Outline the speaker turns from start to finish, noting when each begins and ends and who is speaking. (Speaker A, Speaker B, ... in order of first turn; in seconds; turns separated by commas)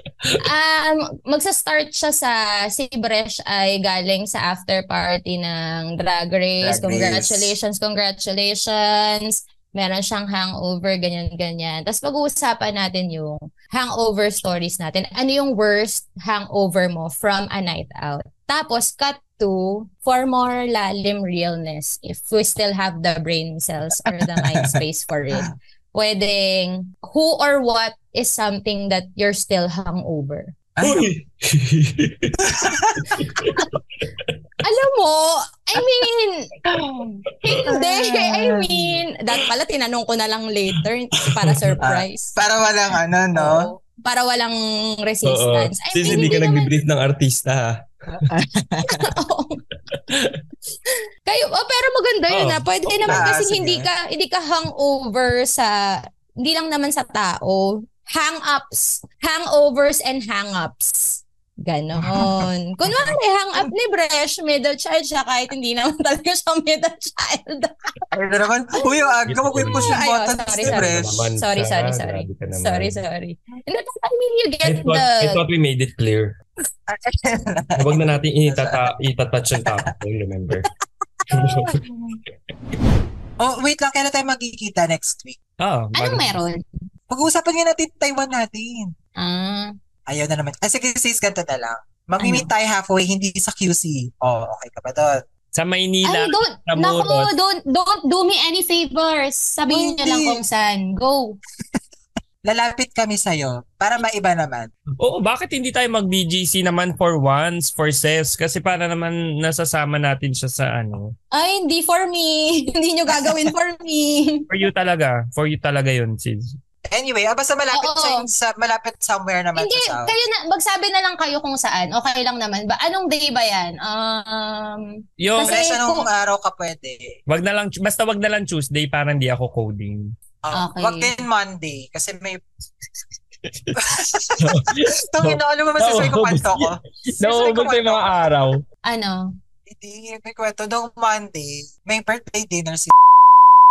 Speaker A: 0.4-30.6, Speaker B: 6.6-7.5, Speaker B: 24.4-24.8, Speaker B: 30.8-31.1, Speaker C: 30.8-33.7, Speaker B: 32.5-33.3, Speaker A: 34.6-36.5, Speaker B: 36.7-39.0, Speaker A: 37.4-42.4, Speaker C: 41.2-41.8, Speaker B: 41.8-43.7, Speaker A: 43.4-46.7, Speaker C: 45.2-48.2, Speaker B: 46.1-46.4, Speaker B: 48.3-49.1, Speaker A: 48.9-49.6, Speaker C: 49.9-50.4, Speaker A: 50.9-67.9, Speaker C: 52.3-53.3, Speaker B: 53.1-53.9, Speaker B: 62.0-63.7, Speaker B: 68.1-71.3, Speaker A: 68.8-69.1, Speaker C: 69.3-70.0, Speaker A: 69.8-75.4, Speaker C: 70.7-73.0, Speaker C: 74.7-76.3, Speaker B: 76.9-78.9, Speaker C: 77.8-80.7, Speaker B: 81.2-82.2, Speaker C: 81.3-81.8, Speaker B: 83.4-85.4, Speaker C: 85.6-86.3, Speaker A: 86.0-86.6, Speaker B: 87.1-88.9, Speaker A: 89.2-89.7, Speaker B: 90.1-95.2, Speaker A: 92.2-92.5, Speaker C: 95.5-97.3, Speaker A: 96.0-101.4, Speaker B: 99.7-100.4, Speaker B: 102.5-104.7, Speaker C: 105.0-111.1, Speaker A: 111.3-114.5, Speaker B: 113.2-113.5, Speaker C: 114.5-116.5, Speaker B: 116.9-120.1, Speaker A: 117.7-118.3, Speaker A: 119.5-126.1, Speaker C: 125.2-125.6, Speaker B: 125.5-127.2, Speaker C: 127.3-130.1, Speaker B: 130.4-132.4, Speaker A: 130.5-131.1, Speaker C: 133.5-133.8, Speaker B: 133.8-138.3, Speaker C: 134.4-138.6, Speaker A: 138.9-139.3, Speaker B: 139.7-143.5